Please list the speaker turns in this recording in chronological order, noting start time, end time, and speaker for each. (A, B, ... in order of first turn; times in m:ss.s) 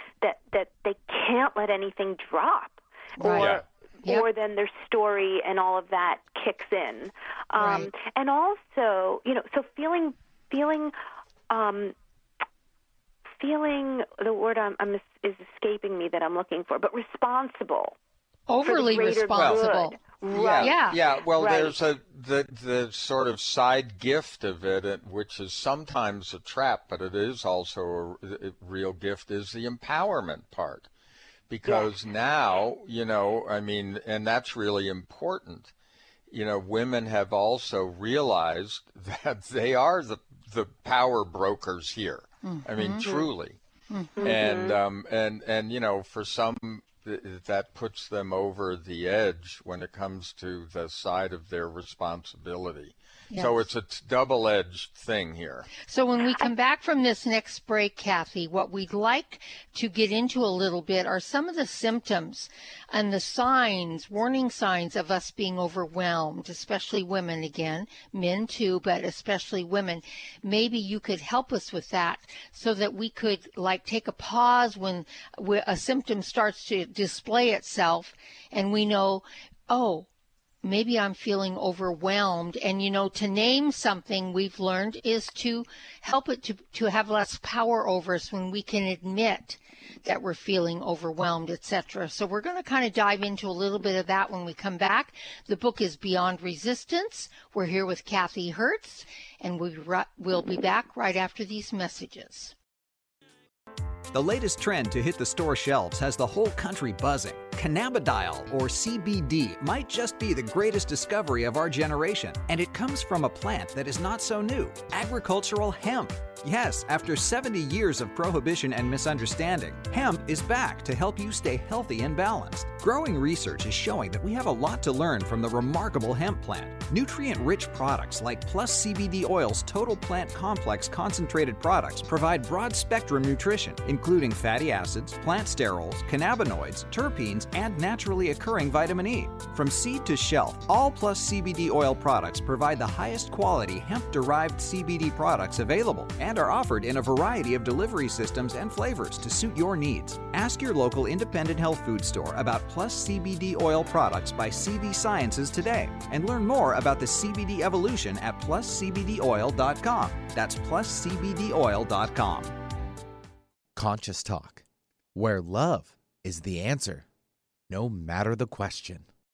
0:00.2-0:10.9 A
0:03.2-0:04.3 B
0:03.4-0:03.6 C
0:07.6-0:07.9 B
0:11.5-0:12.0 A
0:13.4-0:18.0 A
0:18.5-0:20.0 B
0:18.6-0:21.8 A
0:19.4-0:19.6 C
0:20.3-0:30.9 C
0:20.5-0:21.0 B
0:31.5-0:35.7 C
0:36.3-0:43.6 C
0:42.4-0:43.1 B
0:43.0-0:43.3 A
0:43.9-0:44.3 B
0:44.2-0:44.8 A
0:44.2-0:55.7 C
0:53.3-0:53.6 B
0:55.8-1:20.1 B
1:20.6-1:42.5 B
1:44.1-2:42.5 D
2:43.7-2:44.6 E
2:45.1-2:47.0 E
2:47.7-2:49.0 E